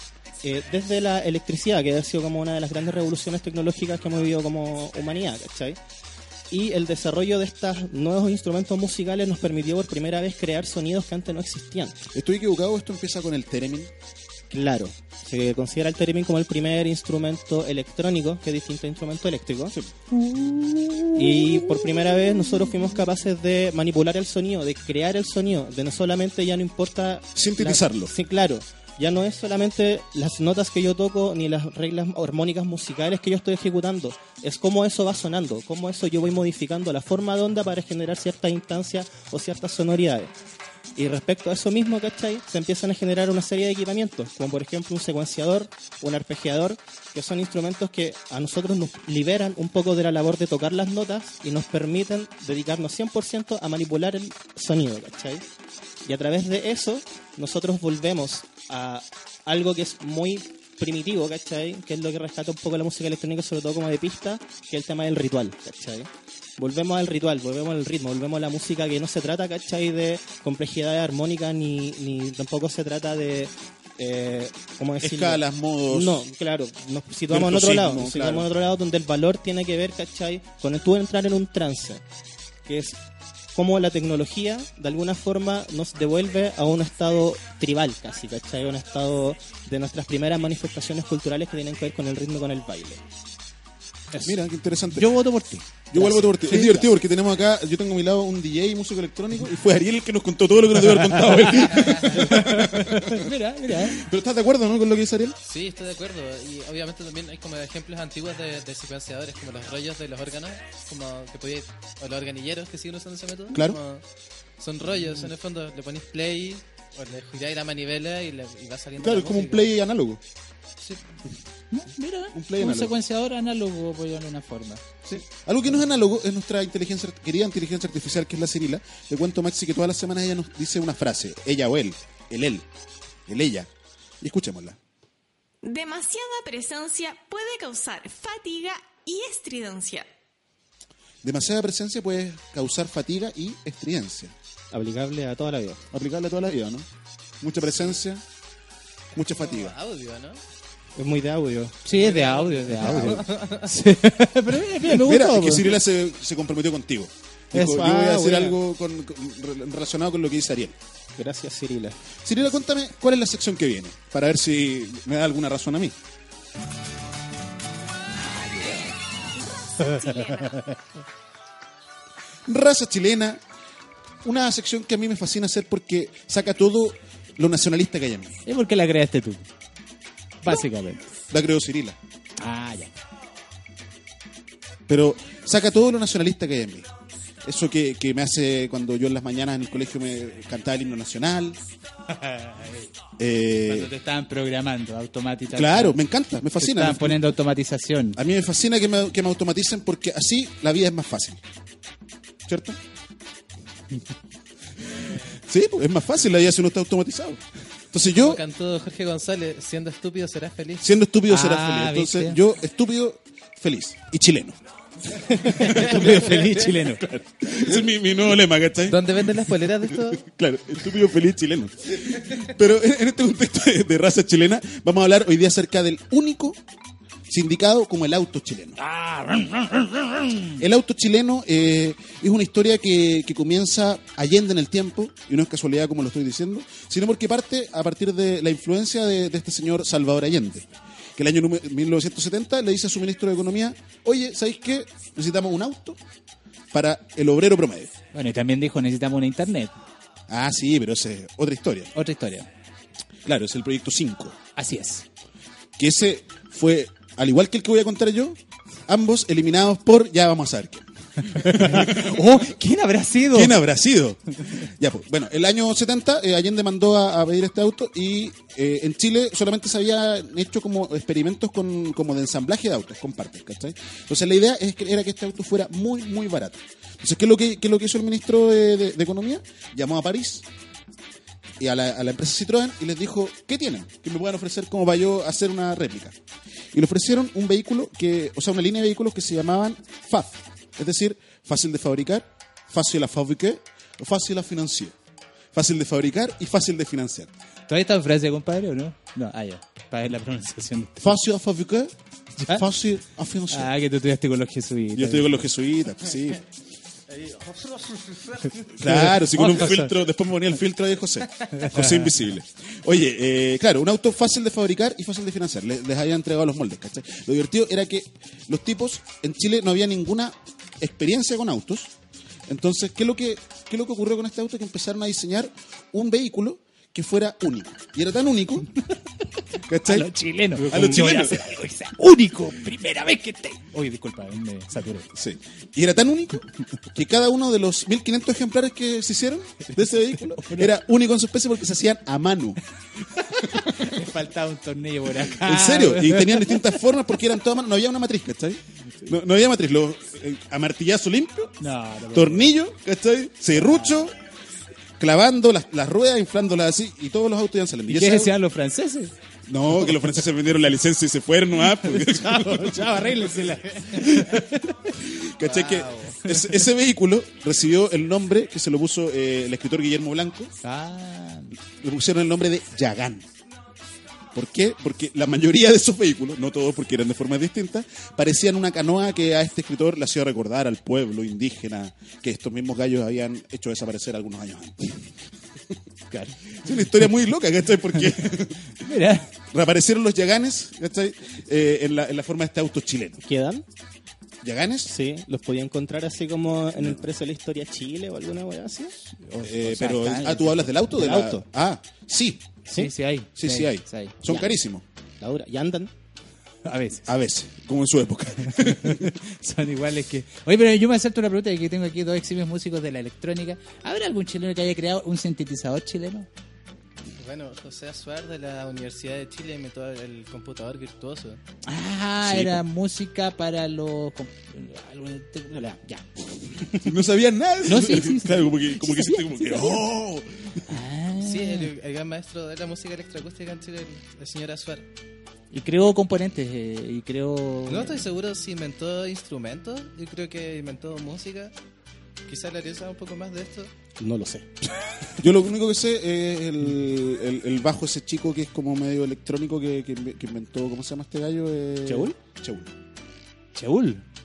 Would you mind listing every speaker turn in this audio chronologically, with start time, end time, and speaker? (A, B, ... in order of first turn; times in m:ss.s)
0:00.4-0:05.8 A
0:06.5-0:12.0 A
0:12.1-0:13.9 B
0:14.5-0:19.8 A
0:20.3-0:21.4 C
0:21.1-0:40.3 A
0:27.3-0:28.1 B
0:41.0-0:55.4 A
0:56.0-1:22.0 A
1:15.0-1:16.2 B
1:17.3-1:18.5 B
1:22.6-1:23.0 A
1:23.5-1:33.0 A
1:34.2-1:35.2 B
1:34.9-1:35.9 C
1:35.9-1:45.4 B
1:35.9-1:36.8 A
1:40.8-1:44.0 C
1:45.4-1:54.0 D
1:53.5-1:53.8 B
1:54.6-1:59.7 D
1:59.0-2:00.2 B
2:01.7-2:04.8 C
2:02.3-2:02.9 B
2:05.0-2:12.7 B
2:13.3-2:13.7 B
2:14.2-2:14.8 B
2:15.6-2:20.1 E
2:21.2-2:24.3 B
2:24.7-2:25.8 A
2:25.9-2:26.9 B
2:27.4-2:28.2 B
2:29.1-2:29.7 B
2:29.3-2:30.4 D
2:31.0-2:31.8 A
2:31.8-2:35.8 C
2:31.9-2:33.7 D
2:32.8-2:33.2 B
2:34.8-2:40.8 B
2:37.5-2:38.6 A
2:41.2-2:42.0 A
2:42.2-2:46.0 B
2:48.3-2:48.9 C
2:49.4-2:50.6 E
2:49.8-2:50.8 C
2:52.5-2:53.4 B
2:54.2-2:58.4 B
2:58.4-2:59.4 C
3:00.4-3:01.0 C
3:01.3-3:02.0 B
3:02.4-3:02.9 C
3:04.9-3:06.9 B
3:07.4-3:11.6 B
3:12.1-3:12.9 C
3:13.2-3:13.9 B
3:13.6-3:16.0 C
3:15.5-3:17.3 B
3:16.6-3:18.2 C
3:18.2-3:21.4 B
3:22.5-3:22.8 B
3:25.3-3:27.4 B
3:27.9-3:28.4 B
3:28.1-3:30.8 D
3:30.8-3:34.6 B
3:31.3-3:32.4 C
3:35.3-3:46.6 B
3:35.4-3:37.0 C
3:38.9-3:40.2 D
3:47.3-3:48.8 B
3:48.8-3:50.6 C
3:50.6-4:06.0 B
4:06.7-4:07.9 B
4:08.1-4:09.7 C
4:10.3-4:11.9 B
4:11.9-4:12.5 C
4:13.2-4:14.4 B
4:14.6-4:15.0 C
4:15.8-4:22.4 B
4:21.3-4:23.6 C
4:23.3-4:40.4 B
4:41.6-4:46.2 B
4:46.7-4:54.9 B
4:55.5-4:57.3 B
4:57.7-5:01.2 C
5:01.0-5:01.9 B
5:02.4-5:02.6 C
5:02.5-5:03.7 B
5:03.5-5:05.4 C
5:04.9-5:06.4 B
5:08.7-5:21.9 B
5:08.8-5:09.9 C
5:11.5-5:12.1 C
5:22.5-5:28.7 B
5:29.6-5:31.5 B
5:29.8-5:35.1 C
5:35.1-5:42.6 B
5:40.3-5:40.7 C
5:43.2-5:46.7 C
5:45.2-5:51.6 B
5:51.6-5:52.5 C
5:52.1-5:54.1 B
5:53.5-5:54.0 C
5:55.0-5:58.3 B
5:57.9-5:59.1 C
5:59.5-6:03.1 B
5:59.7-6:00.1 C
6:01.7-6:04.9 C
6:03.9-6:10.5 B
6:05.4-6:06.2 D
6:10.6-6:11.6 C
6:11.8-6:13.3 B
6:14.3-6:25.0 B
6:26.1-6:26.4 C
6:26.5-6:28.8 B
6:28.7-6:29.3 C
6:29.5-6:33.2 B
6:33.2-6:33.6 A
6:34.4-6:34.9 B
6:34.8-6:39.0 A
6:36.8-6:37.1 B
6:39.2-6:40.8 C
6:39.4-6:42.5 B
6:40.9-6:41.4 A
6:42.7-6:44.3 C
6:43.3-6:44.8 B
6:45.2-6:45.9 A
6:46.6-6:47.1 C
6:47.1-6:49.2 B
6:48.5-6:56.3 C
6:57.2-7:01.4 D
7:01.6-7:06.9 C
7:02.2-7:02.6 B
7:06.8-7:10.7 B
7:07.6-7:09.8 C
7:10.7-7:11.7 C
7:11.2-7:14.9 D
7:15.5-7:18.0 C
7:17.7-7:21.5 D
7:22.3-7:23.7 D
7:24.0-7:24.5 A
7:25.2-7:32.7 B
7:31.9-7:32.1 A
7:33.5-7:34.0 C